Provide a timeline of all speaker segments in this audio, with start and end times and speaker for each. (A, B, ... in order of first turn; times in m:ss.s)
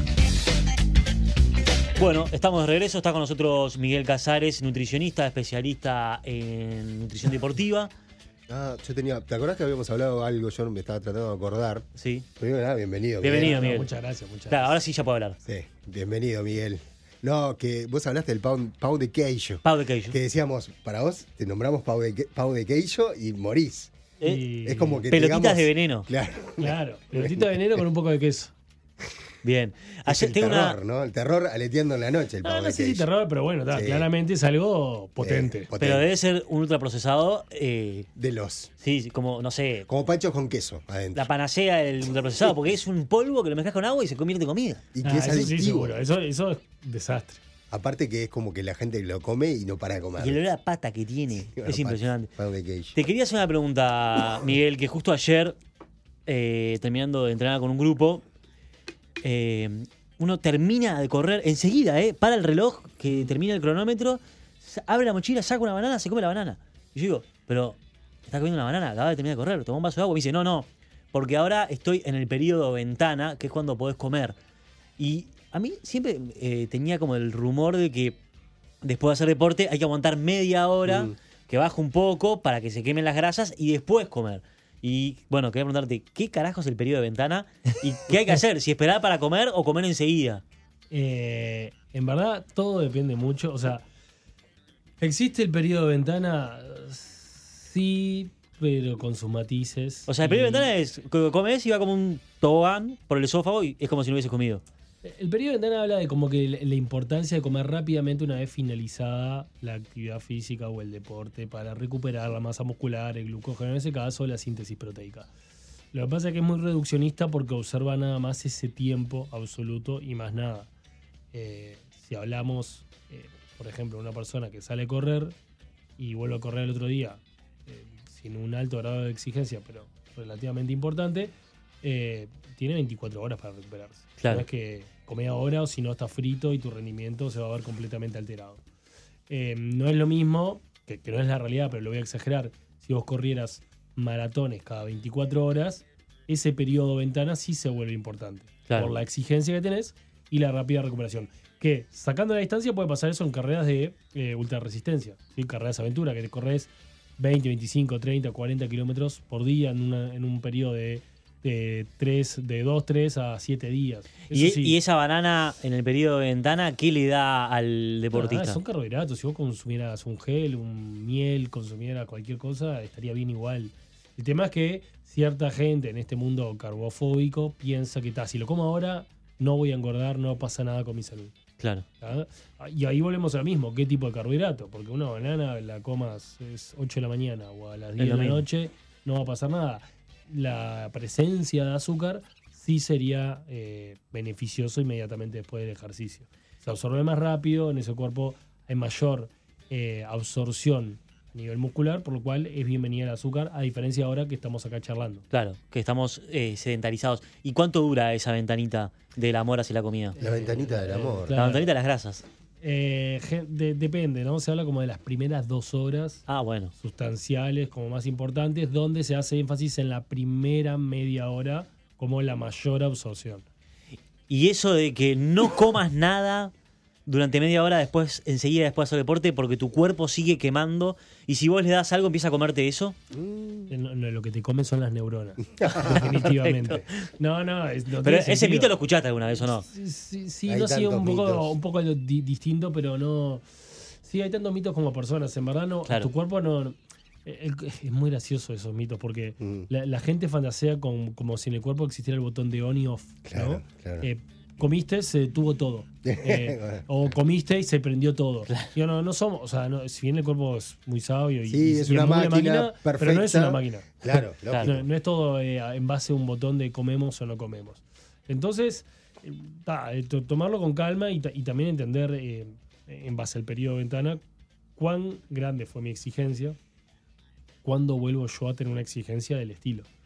0:02.0-0:07.9 A
0:08.5-0:11.9 B
0:12.0-0:12.3 A
0:12.4-0:13.6 B
0:13.2-0:13.9 A
0:13.3-0:14.8 C
0:14.5-0:15.4 A
0:15.4-0:23.9 B
0:19.6-0:20.2 A
0:24.2-0:24.4 A
0:24.2-0:25.0 C
0:24.6-0:27.8 B
0:25.1-0:26.1 A
0:26.6-0:28.5 C
0:29.4-0:30.8 A
0:30.1-0:33.1 B
0:32.4-0:35.7 C
0:33.7-0:34.1 B
0:35.2-0:36.1 B
0:35.8-0:38.1 A
0:38.2-0:38.7 B
0:38.8-0:39.9 A
0:39.9-0:41.3 B
0:41.1-0:44.8 A
0:44.9-0:46.0 B
0:45.0-0:47.4 C
0:47.7-0:50.4 B
0:50.2-0:52.3 A
0:51.4-0:53.0 B
0:52.9-0:55.6 A
0:56.3-0:58.2 A
0:59.2-1:14.4 A
1:15.0-1:18.2 A
1:18.8-1:30.4 A
1:20.8-1:21.2 B
1:30.9-1:33.8 C
1:35.0-1:40.7 C
1:40.1-1:44.6 A
1:45.0-1:55.3 C
1:55.9-2:00.7 C
2:01.3-2:05.4 C
2:06.0-2:18.6 C
2:14.2-2:14.4 A
2:19.3-2:44.8 C
2:28.7-2:29.0 A
2:44.3-2:48.6 A
2:48.1-3:01.3 C
3:01.6-3:01.8 A
3:02.0-3:25.2 C
3:08.0-3:08.4 A
3:25.3-3:30.2 A
3:30.2-3:31.7 C
3:30.2-3:31.4 B
3:31.3-3:32.2 A
3:32.6-3:43.5 C
3:36.3-3:36.7 A
3:44.3-3:46.5 A
3:47.1-3:53.0 A
3:53.1-3:53.7 B
3:53.7-3:58.7 C
3:55.6-3:56.3 B
3:55.9-3:57.0 A
3:58.0-3:59.7 A
3:59.4-4:34.2 C
4:00.5-4:01.6 B
4:09.4-4:09.7 B
4:13.2-4:14.1 B
4:16.0-4:16.9 B
4:21.5-4:24.9 B
4:34.8-4:36.6 C
4:37.6-4:39.9 C